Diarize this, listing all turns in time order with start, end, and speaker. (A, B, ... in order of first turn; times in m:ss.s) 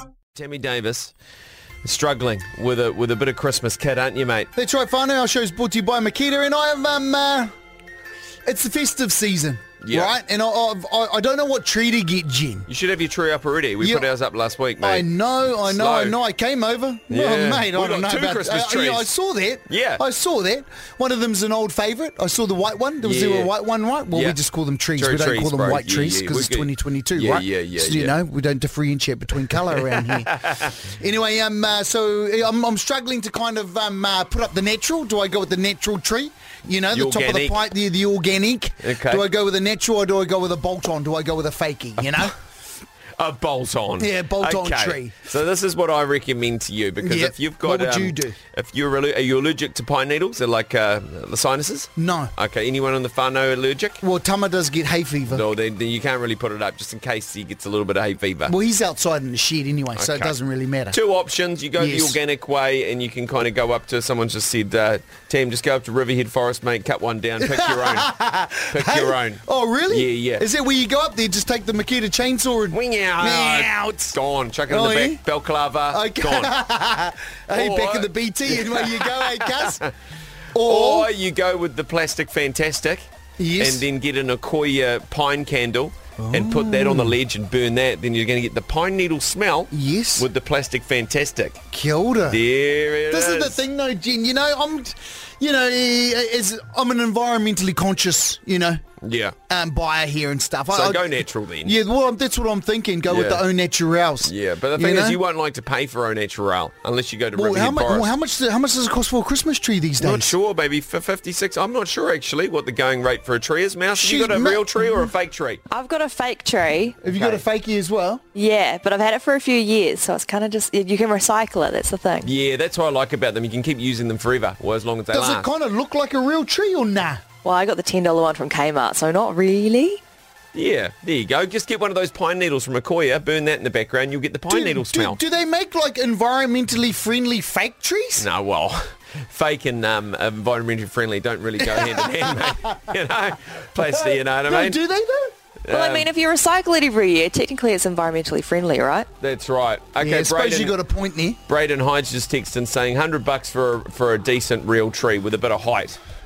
0:00.4-0:01.1 A
0:01.8-0:04.5 A
0:04.6-0:07.5 B
0:08.4-0:12.7 B
0:09.8-0:10.1 A
0:12.7-0:16.2 A
0:13.8-0:14.1 B
0:14.8-0:42.4 B
0:17.1-0:19.1 A
0:19.7-0:20.0 A
0:23.0-0:23.5 A
0:24.1-0:24.4 A
0:25.0-0:28.2 A
0:29.8-0:30.1 A
0:36.9-0:37.6 A
0:38.8-0:39.2 A
0:42.0-0:42.3 A
0:43.2-0:54.0 A
0:44.0-0:45.2 B
0:47.0-0:48.4 B
0:52.0-0:52.3 B
0:54.0-0:55.5 B
0:55.3-0:58.6 A
0:58.5-1:01.0 B
1:00.0-1:00.4 A
1:00.9-1:08.1 A
1:01.8-1:02.2 B
1:07.4-1:15.2 B
1:08.7-1:10.4 A
1:12.7-1:16.5 A
1:15.9-1:19.8 B
1:17.5-1:19.9 A
1:20.5-1:21.1 B
1:20.6-1:31.6 A
1:23.4-1:23.9 B
1:26.2-1:27.2 B
1:29.7-1:30.3 B
1:31.7-1:32.4 B
1:32.3-1:33.6 A
1:33.1-1:38.8 B
1:39.0-1:39.4 A
1:39.5-1:45.2 B
1:40.7-1:41.8 A
1:43.1-1:43.4 A
1:44.2-1:48.1 A
1:47.3-1:50.4 B
1:50.0-1:55.6 A
1:54.0-1:55.1 B
1:55.7-1:57.0 C
1:57.0-1:58.2 B
1:57.1-1:57.4 A
1:58.4-2:02.3 C
2:02.2-2:05.5 A
2:05.1-2:07.2 B
2:07.4-2:10.0 C
2:10.5-2:15.2 A
2:14.5-2:18.3 B
2:18.2-2:24.8 A
2:21.6-2:23.0 B
2:23.8-2:25.3 B
2:25.6-2:26.1 A
2:25.7-2:29.1 C
2:29.2-2:30.8 A
2:30.0-2:31.4 B
2:31.5-2:36.0 A